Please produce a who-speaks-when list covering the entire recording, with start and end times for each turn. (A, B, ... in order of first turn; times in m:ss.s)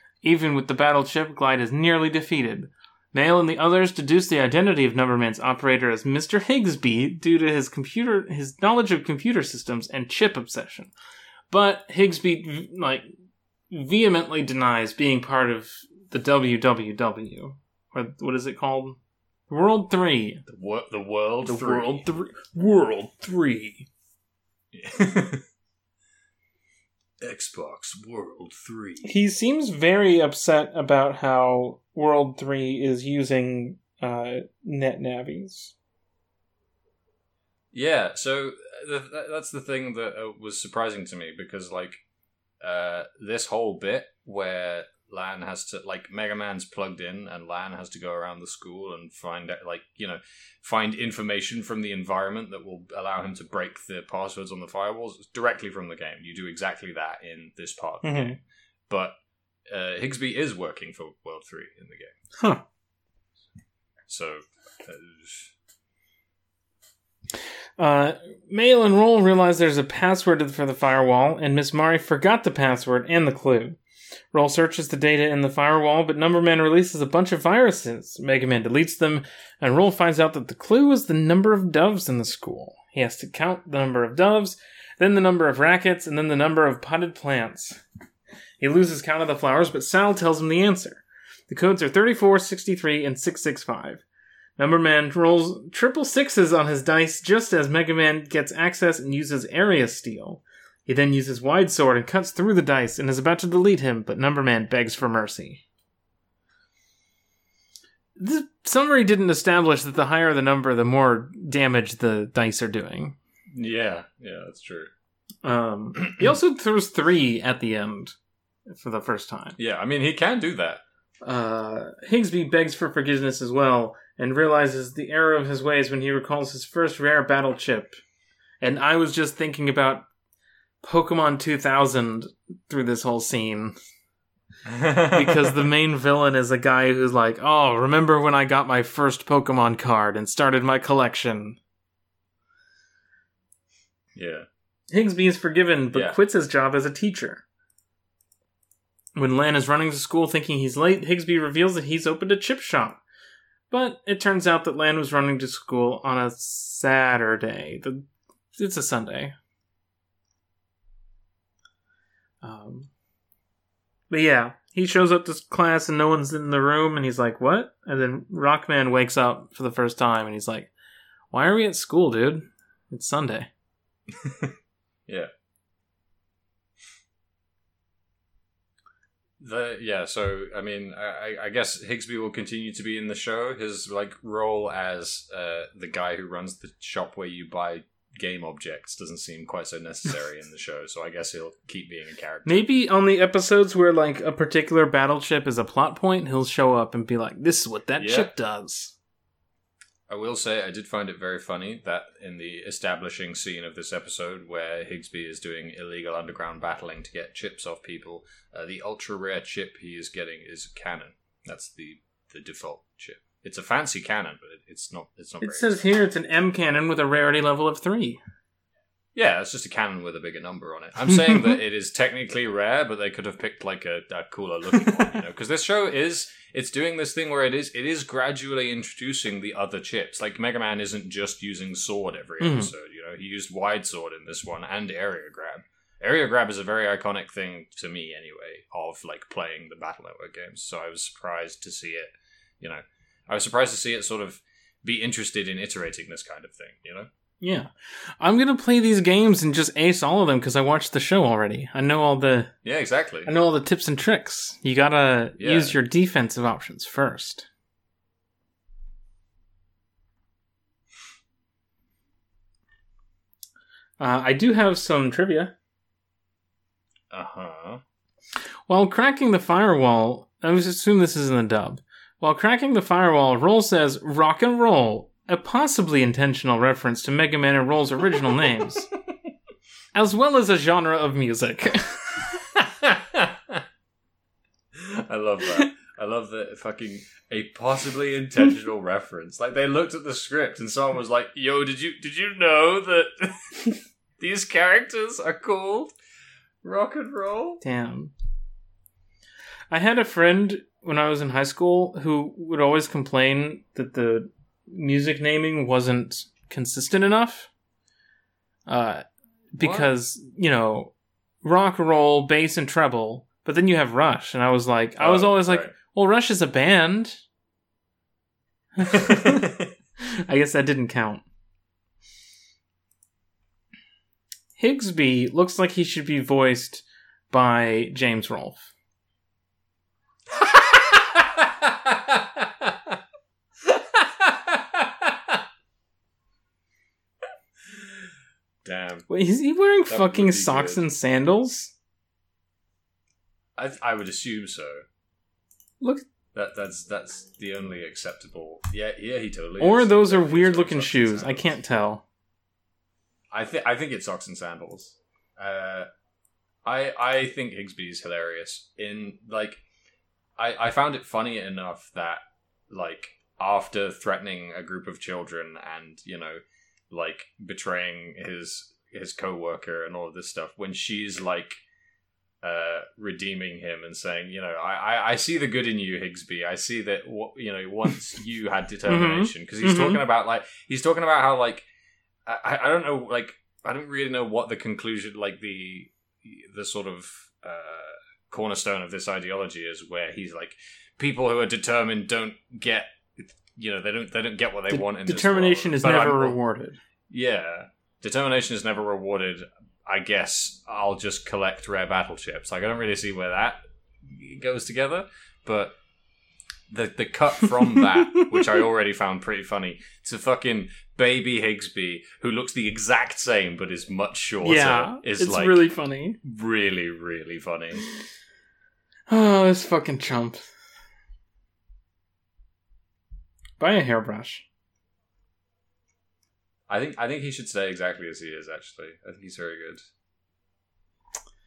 0:00.2-0:10.9 A
0:11.5-0:13.1 A
0:13.7-0:19.0 A
0:19.5-0:20.4 A
0:20.5-0:22.0 B
0:21.5-0:23.9 A
0:24.7-0:25.4 B
0:27.2-0:29.1 B
0:29.0-0:35.7 A
0:37.7-0:42.0 B
0:42.6-0:58.4 B
0:58.0-0:58.4 A
0:58.9-0:59.2 B
0:59.7-1:02.2 B
1:02.4-1:02.6 A
1:04.1-1:05.5 B
1:07.8-1:13.8 A
1:14.3-1:27.8 A
1:28.6-1:34.0 A
1:34.6-1:45.6 A
1:48.2-1:53.2 A
1:53.5-1:54.9 B
1:55.4-1:58.2 A
1:58.7-1:59.6 A
1:59.6-2:00.8 B
2:01.2-2:08.0 A
2:08.6-2:10.1 A
2:10.8-2:13.8 A
2:14.7-2:15.6 B
2:15.1-2:21.6 A
2:24.2-2:24.5 B
2:24.9-2:27.4 A
2:25.9-2:26.2 B
2:29.2-2:33.0 A
2:33.7-2:39.4 A
2:42.4-2:42.9 A
2:44.1-2:50.7 A
2:51.3-2:53.5 A
2:54.2-2:54.5 B
2:59.4-3:12.6 B
3:12.4-3:18.9 A
3:18.0-3:18.3 B
3:20.1-3:35.8 B
3:35.4-3:38.2 A
3:39.2-4:07.1 B
3:52.4-3:52.7 A
4:07.4-4:12.5 A
4:12.6-4:13.3 B
4:13.2-4:17.5 A
4:15.4-4:15.8 B
4:24.0-4:25.5 A
4:27.1-4:27.8 B
4:28.7-4:38.9 A
4:39.9-4:42.4 A
4:42.8-4:43.6 B
4:44.7-4:56.0 B
4:56.6-4:57.6 B
4:57.6-4:58.1 A
4:59.7-5:07.5 A
5:08.7-5:17.2 A
5:09.6-5:09.9 B
5:15.0-5:15.7 B
5:18.8-5:19.5 A
5:18.9-5:19.7 B
5:20.3-5:21.2 A
5:24.6-5:28.7 A
5:30.3-5:33.0 B
5:33.6-5:35.4 B
5:38.6-5:39.1 B
5:39.1-5:41.7 A
5:39.9-5:40.8 B
5:43.6-5:44.8 B
5:46.3-5:51.6 B
5:49.6-5:52.0 A
5:53.3-5:55.9 B
5:56.6-5:59.6 B
6:00.4-6:11.6 B
6:12.4-6:21.7 B
6:18.9-6:20.0 A
6:22.3-6:36.4 B
6:34.7-6:36.8 A
6:37.1-6:45.8 B
6:46.7-6:55.7 B
6:47.8-6:48.4 A
6:54.4-6:56.2 A
6:56.2-6:57.8 B
6:59.1-7:00.5 A
7:03.6-7:04.5 A
7:06.7-7:09.8 B